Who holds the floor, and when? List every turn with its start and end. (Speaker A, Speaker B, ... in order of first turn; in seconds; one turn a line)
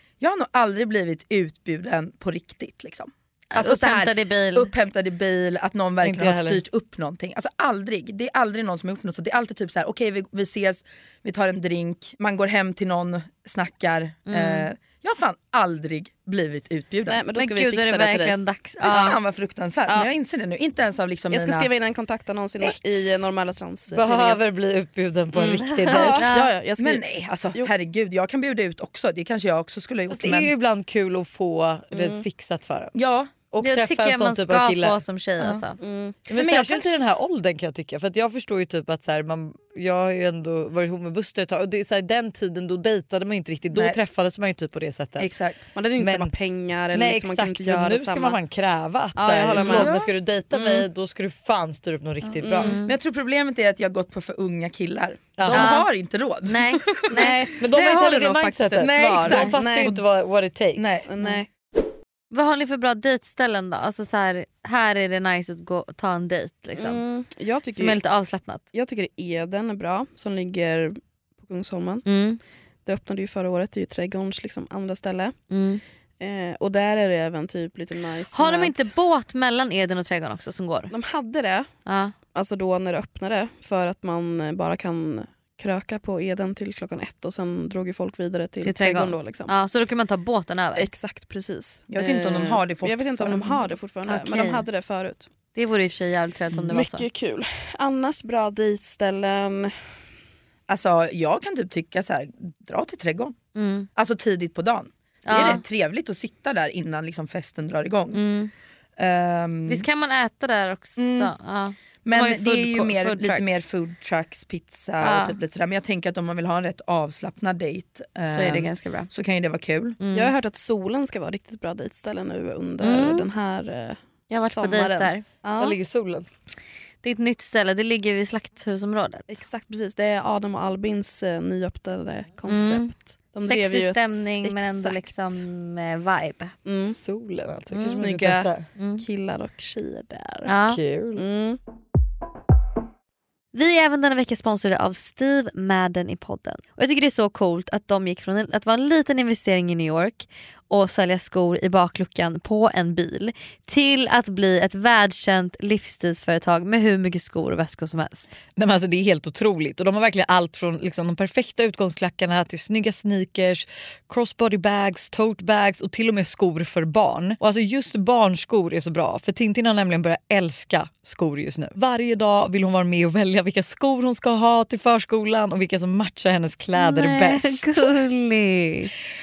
Speaker A: 0.2-17.2
Speaker B: 3.5-4.7
Speaker C: 6.0-6.6
Speaker B: 14.3-14.7
Speaker D: 17.1-18.4
Speaker B: 17.4-19.1
Speaker D: 18.9-19.2
Speaker A: 18.9-21.7
Speaker D: 21.3-24.4
Speaker C: 23.9-26.3
Speaker B: 25.4-26.5
Speaker D: 25.5-27.7
Speaker A: 26.8-30.5
Speaker C: 30.1-33.0
Speaker D: 31.9-32.2
Speaker A: 33.0-33.3
Speaker C: 33.5-35.0
Speaker B: 33.6-35.8
Speaker D: 35.8-36.2
Speaker C: 36.3-45.3
Speaker A: 36.3-36.9
Speaker A: 43.7-44.0
Speaker A: 45.2-45.6
Speaker D: 45.8-48.4
Speaker C: 46.0-46.3
Speaker C: 46.9-52.8
Speaker D: 49.2-50.0
Speaker A: 49.6-50.0
Speaker D: 50.5-50.8
Speaker D: 52.4-52.8
Speaker B: 52.6-52.9
Speaker A: 52.8-57.3
Speaker C: 55.4-55.8
Speaker B: 55.5-55.9
Speaker B: 56.5-57.4
Speaker D: 57.1-59.9
Speaker C: 57.6-61.1
Speaker A: 58.8-60.0
Speaker A: 60.8-61.1
Speaker D: 61.1-61.5
Speaker B: 62.3-67.0
Speaker D: 66.8-68.0
Speaker B: 67.7-68.6
Speaker D: 68.7-72.1
Speaker B: 72.1-72.4
Speaker D: 72.9-75.4
Speaker B: 75.5-75.8
Speaker D: 76.2-78.9
Speaker B: 78.3-80.9
Speaker D: 80.9-81.7
Speaker B: 81.9-82.1
Speaker D: 82.3-89.5
Speaker B: 88.6-90.9
Speaker D: 90.8-95.3
Speaker A: 91.9-93.7
Speaker B: 94.1-94.6
Speaker B: 95.5-97.1
Speaker D: 96.7-99.7
Speaker A: 100.7-103.4
Speaker B: 103.5-103.9
Speaker A: 104.0-108.2
Speaker B: 105.2-105.6
Speaker B: 108.1-108.5
Speaker A: 109.0-109.9
Speaker B: 109.7-113.6
Speaker A: 111.0-111.3
Speaker A: 112.0-120.0
Speaker B: 115.0-115.4
Speaker B: 118.3-119.1
Speaker B: 120.0-120.3
Speaker D: 120.1-125.8
Speaker B: 122.8-123.3
Speaker B: 124.3-125.2
Speaker C: 125.6-126.3
Speaker B: 127.0-129.4
Speaker D: 129.3-135.4
Speaker B: 132.5-132.9
Speaker B: 133.4-136.5
Speaker D: 136.7-137.0
Speaker C: 136.9-138.7
Speaker B: 137.7-138.0
Speaker D: 137.9-140.5
Speaker B: 138.8-139.0
Speaker B: 140.5-140.8
Speaker C: 140.7-141.2
Speaker D: 141.2-141.6
Speaker B: 143.5-158.3
Speaker C: 158.6-178.0
Speaker B: 176.8-178.9